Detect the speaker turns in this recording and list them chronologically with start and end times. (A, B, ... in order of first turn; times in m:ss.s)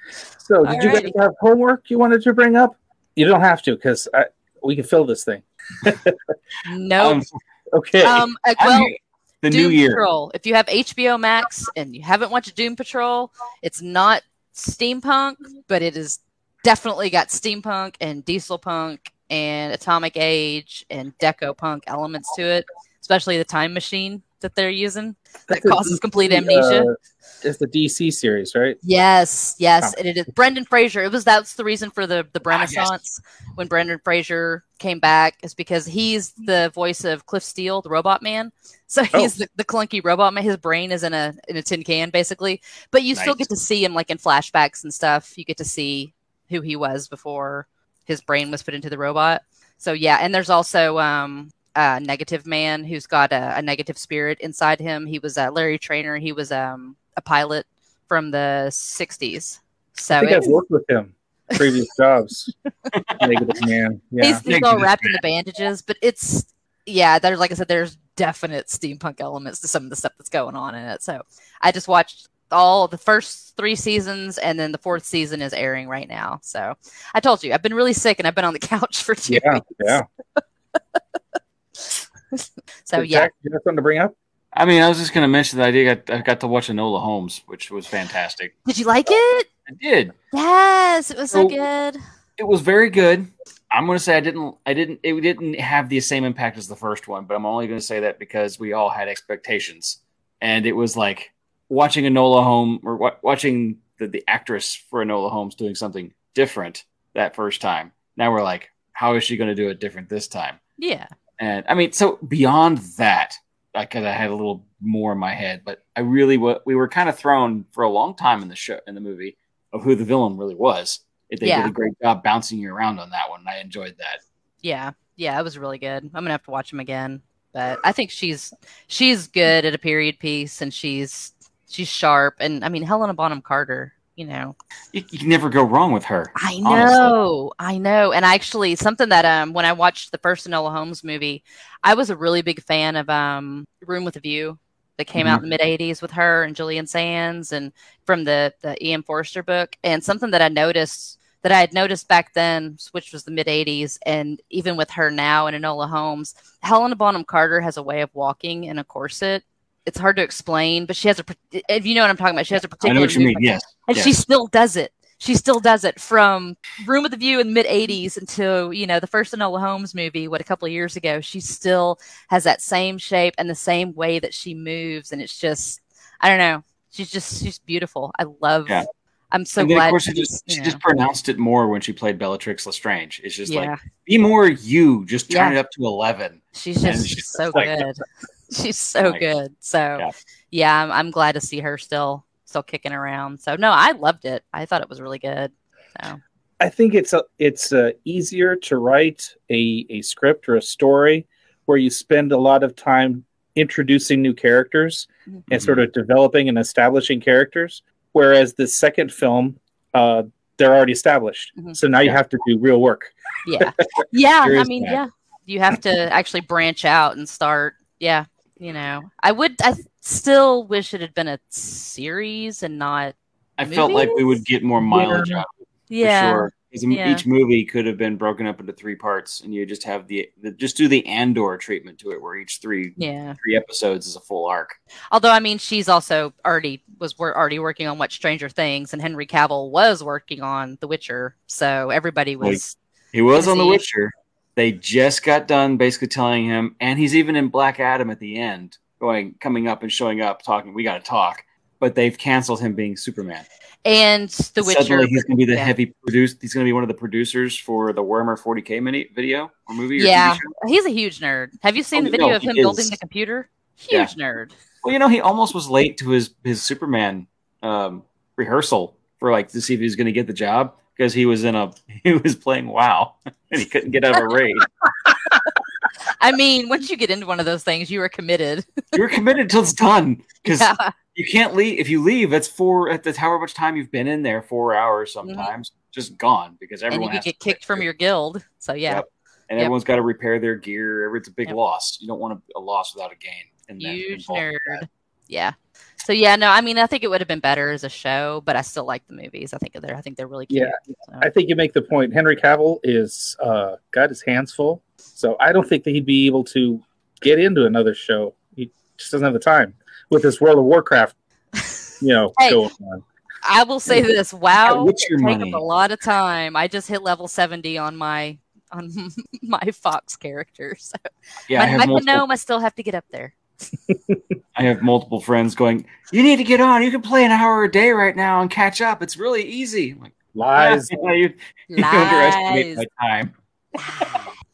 0:00.4-0:06.3 A
0:00.6-0:01.1 B
0:06.6-0:07.2 B
0:07.0-0:07.3 C
0:07.7-0:08.2 A
0:08.0-0:08.9 B
0:08.6-0:10.1 C
0:09.5-0:26.9 B
0:25.5-0:28.8 A
0:28.8-1:00.5 B
0:32.5-0:32.9 C
0:43.1-0:43.5 C
1:00.2-1:02.5 A
1:02.9-1:03.3 C
1:03.2-1:04.4 A
1:04.2-1:20.4 B
1:04.5-1:05.2 C
1:19.3-1:20.0 A
1:21.8-1:23.3 B
1:23.0-1:24.1 A
1:24.5-1:28.5 C
1:28.6-1:29.5 B
1:29.7-1:30.1 C
1:30.3-1:32.0 B
1:31.3-1:31.6 C
1:32.4-1:50.6 C
1:50.8-1:51.1 B
1:51.4-2:04.2 C
2:01.4-2:01.7 B
2:04.6-2:14.5 B
2:14.9-2:17.2 C
2:16.4-3:00.8 B
2:25.1-2:25.4 C
2:42.8-2:44.1 C
2:59.6-3:07.8 C
3:03.5-3:03.8 B
3:05.3-3:05.6 B
3:06.5-3:16.2 B
3:16.6-3:33.6 A
3:25.5-3:25.8 C
3:33.4-3:44.3 B
3:34.4-3:35.0 C
3:43.6-3:54.8 C
3:44.9-3:45.4 A
3:45.9-3:47.2 B
3:53.0-3:53.4 B
3:55.1-4:02.8 B
4:03.1-4:13.5 C
4:03.4-4:03.8 B
4:13.8-4:15.7 B
4:14.6-4:20.5 C
4:20.0-4:24.5 B
4:22.0-4:23.0 C
4:24.8-4:34.7 C
4:36.1-4:38.8 B
4:38.9-4:47.8 C
4:40.5-4:40.9 B
4:45.2-4:45.5 B
4:46.9-4:49.0 B
4:48.9-4:54.8 C
4:53.8-5:01.3 B
5:00.5-5:11.1 A
5:12.0-5:13.0 A
5:12.4-5:12.6 B
5:13.4-5:21.0 B
5:14.6-5:15.6 C
5:21.5-5:22.2 C
5:21.5-5:23.3 B
5:24.6-5:33.3 C
5:30.4-5:30.9 A
5:31.7-5:32.8 B
5:33.8-5:34.2 B